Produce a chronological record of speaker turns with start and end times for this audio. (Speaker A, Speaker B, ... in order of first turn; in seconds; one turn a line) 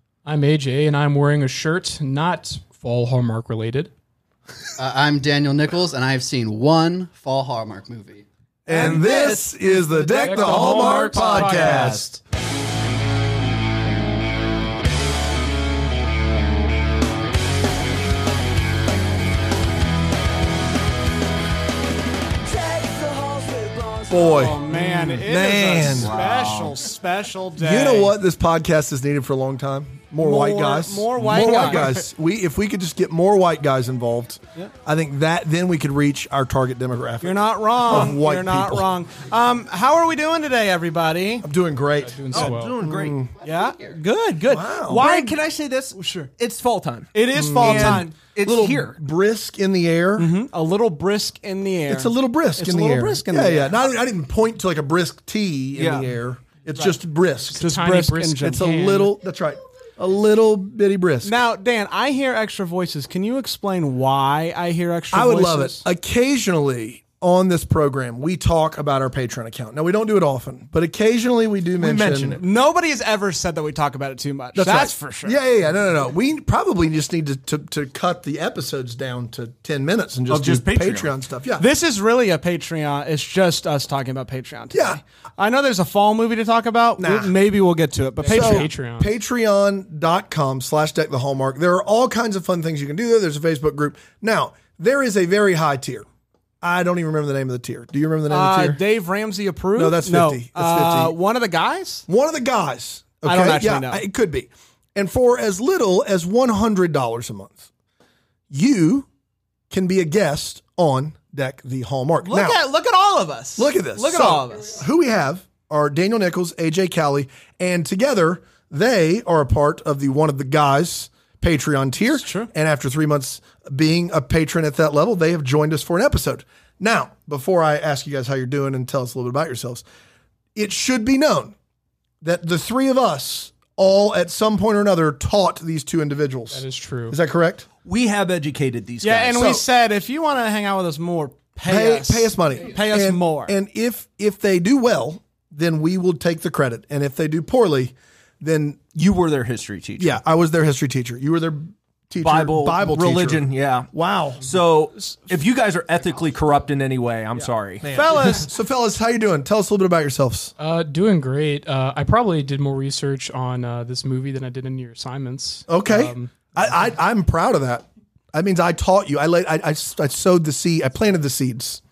Speaker A: 0.2-3.9
Speaker B: 4.8-8.2
Speaker C: 8.7-12.1
Speaker D: 8.7-12.0
Speaker A: 10.1-12.0
Speaker E: 10.9-12.0
Speaker D: 22.5-28.1
Speaker C: 24.1-26.2
Speaker E: 24.7-26.8
Speaker C: 27.6-38.9
Speaker D: 30.2-32.0
Speaker E: 31.3-31.9
Speaker D: 37.2-41.5
Speaker C: 41.4-43.3
Speaker A: 42.0-42.8
Speaker E: 42.3-43.2
Speaker B: 43.2-44.0
Speaker D: 43.4-45.4
Speaker C: 44.5-45.1
Speaker E: 44.9-49.0
Speaker D: 45.9-46.3
Speaker D: 47.1-48.1
Speaker C: 47.3-50.3
Speaker D: 50.2-53.8
Speaker C: 51.9-57.6
Speaker E: 55.8-56.1
Speaker A: 57.5-59.1
Speaker D: 57.5-58.6
Speaker C: 58.4-61.4
Speaker D: 61.2-65.8
Speaker C: 65.1-72.4
Speaker E: 71.8-72.4
Speaker D: 72.3-75.4
Speaker C: 74.5-81.7
Speaker E: 80.3-81.1
Speaker D: 81.6-88.7
Speaker C: 84.7-85.0
Speaker C: 87.0-87.3
Speaker A: 88.2-89.1
Speaker C: 88.3-96.1
Speaker C: 96.6-98.8
Speaker D: 98.3-102.1
Speaker C: 99.8-101.2
Speaker C: 102.1-107.7
Speaker D: 103.2-104.0
Speaker C: 108.5-109.1
Speaker C: 109.7-112.6
Speaker D: 112.2-114.8
Speaker C: 113.6-129.8
Speaker D: 122.2-122.5
Speaker C: 130.6-131.6
Speaker C: 132.2-137.7
Speaker A: 136.5-137.2
Speaker E: 137.8-139.6
Speaker D: 139.0-143.6
Speaker C: 141.7-148.9
Speaker E: 148.9-150.2
Speaker C: 150.0-154.4
Speaker E: 152.2-157.8
Speaker C: 157.8-160.5
Speaker D: 157.8-158.5
Speaker A: 160.6-166.5
Speaker C: 165.7-171.8